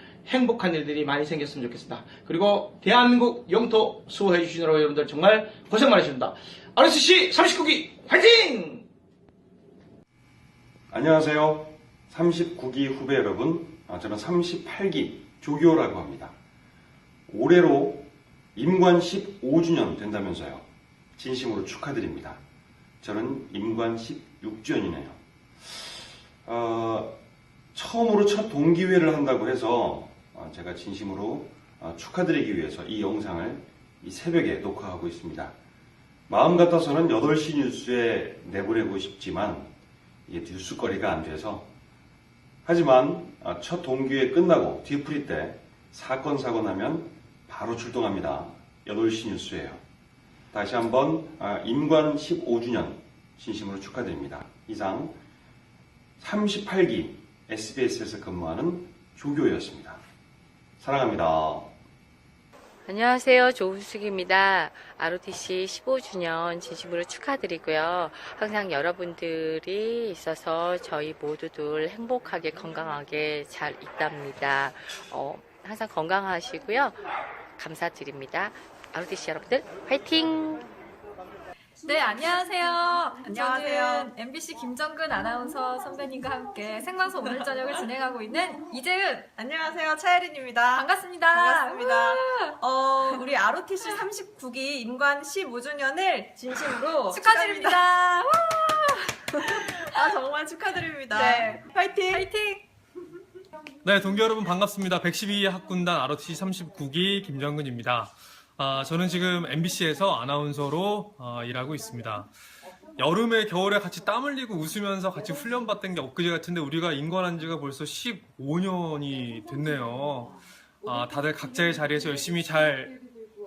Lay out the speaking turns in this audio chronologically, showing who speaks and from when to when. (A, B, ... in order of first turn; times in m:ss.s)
0:00.3-0:08.9 A
0:10.9-0:16.3 B
0:17.3-0:20.6 B
0:21.2-0:22.4 B
0:23.0-0:25.2 B
0:26.4-0:27.2 B
0:27.7-0:35.5 B
0:36.3-0:39.7 B
0:40.3-0:41.7 B
0:42.6-0:49.8 B
0:50.5-0:55.2 B
0:56.2-1:00.0 B
1:00.8-1:01.7 B
1:02.9-1:17.0 C
1:17.6-1:20.6 C
1:21.8-1:29.3 D
1:23.3-1:24.1 E
1:29.4-1:37.8 E
1:30.7-1:33.2 D
1:37.0-1:40.0 D
1:39.5-1:42.3 E
1:41.1-1:42.6 D
1:43.8-1:52.3 F
1:53.0-2:03.0 F